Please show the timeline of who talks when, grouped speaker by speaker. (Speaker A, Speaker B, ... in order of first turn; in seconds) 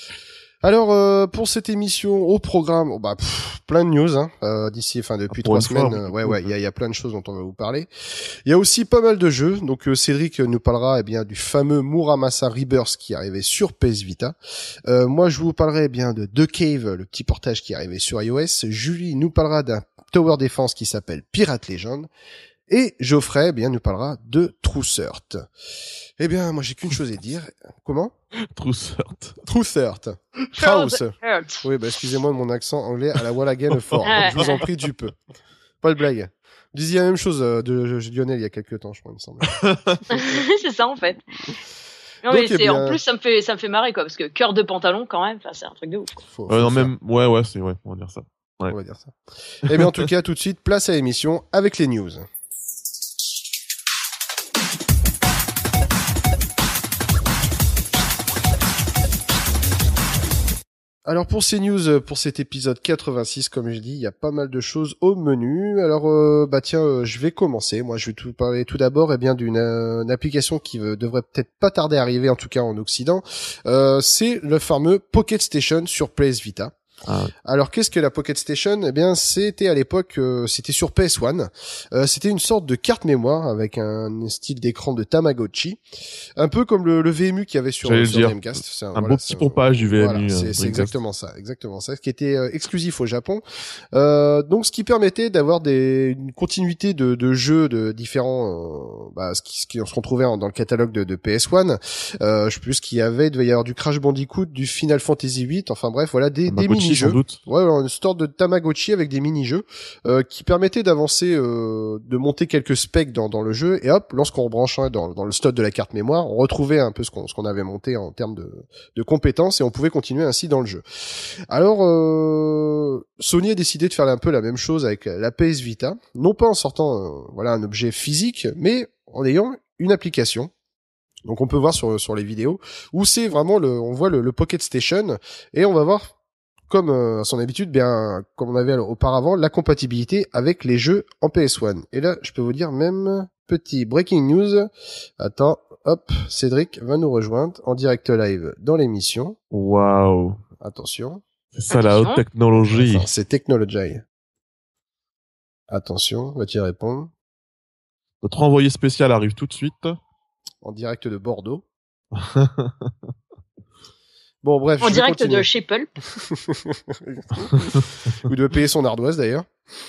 Speaker A: 0.6-14.3, 14.9-22.1, 22.7-25.4, 26.2-28.1, 29.4-35.1, 35.8-39.5, 42.3-43.0, 46.3-46.9, 48.6-52.2, 61.0-76.7, 77.4-85.8, 86.4-120.8, 121.5-130.5, 131.2-136.1, 136.7-149.4, 150.6-151.2, 152.5-154.0, 155.7-157.1, 160.6-161.6, 164.4-165.5, 166.2-169.5
Speaker B: 5.3-6.5, 28.3-29.4, 33.9-34.3, 39.5-40.0, 46.5-48.7, 49.7-50.0, 77.0-77.3, 87.8-90.9, 106.5-107.4, 149.5-150.4, 151.5-153.1, 158.2-160.0, 162.1-162.9
Speaker C: 30.6-31.6, 34.1-34.6, 40.1-41.2, 42.2-46.2, 151.7-152.2, 164.8-165.9